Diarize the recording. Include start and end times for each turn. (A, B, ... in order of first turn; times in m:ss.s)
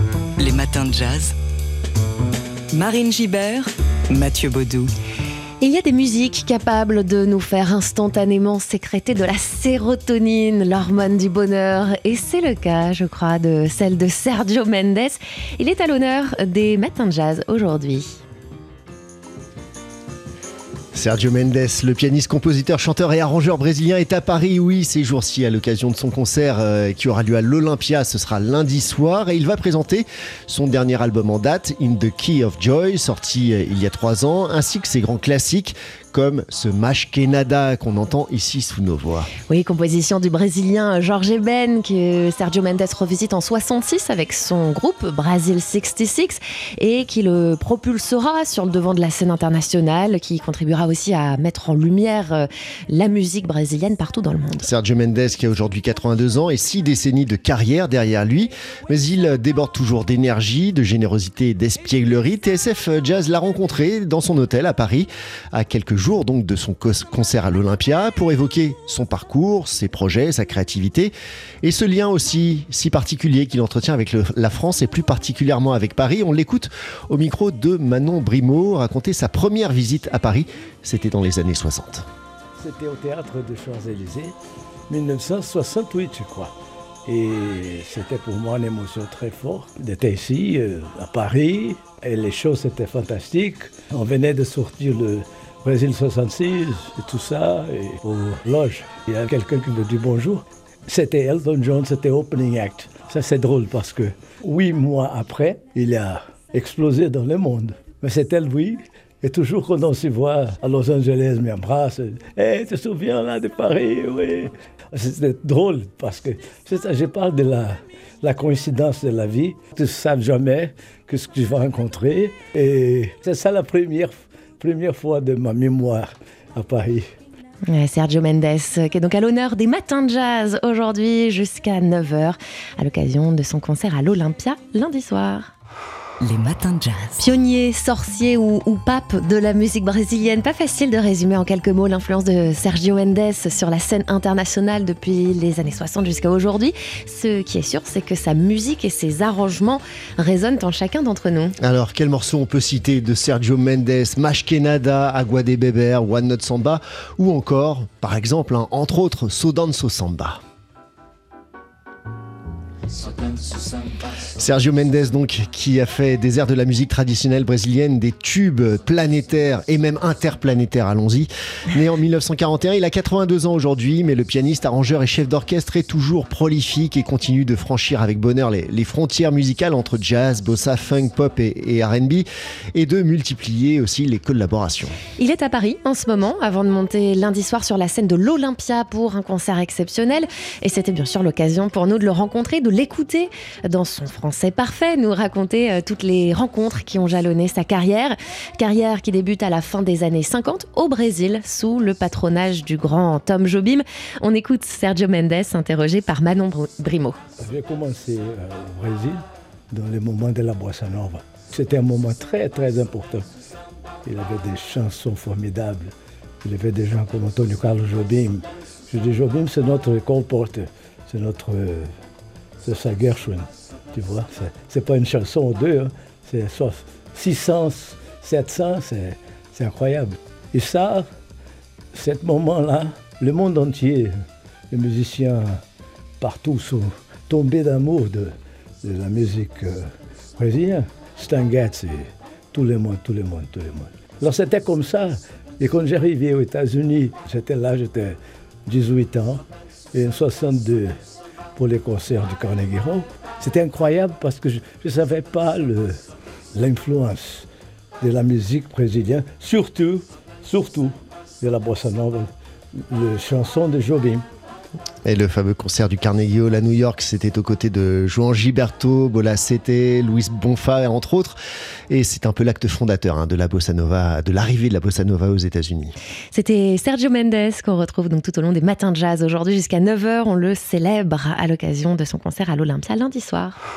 0:00.4-0:01.4 A
0:02.7-0:04.9 A
0:05.6-0:18.2 B
0:20.9-0:39.3 C
0:39.5-0:54.7 B
0:54.6-1:22.0 C
1:22.6-1:24.4 D
1:24.9-1:26.5 D
1:27.1-2:07.0 D
2:07.7-2:15.5 B
2:16.2-2:17.2 A
2:17.2-2:31.6 B
2:31.6-2:40.4 C
2:44.4-3:05.0 C
3:05.2-3:27.2 B
3:27.4-3:33.3 D
3:34.0-3:41.9 D
3:42.6-3:51.1 D
3:51.9-3:54.1 D
3:54.7-3:55.6 D
3:56.2-4:11.0 D
4:11.6-4:16.0 D
4:16.6-4:17.5 D
4:18.0-4:22.3 D
4:22.9-4:24.2 D
4:25.0-4:31.4 C
4:31.9-4:36.0 C
4:36.3-4:43.6 B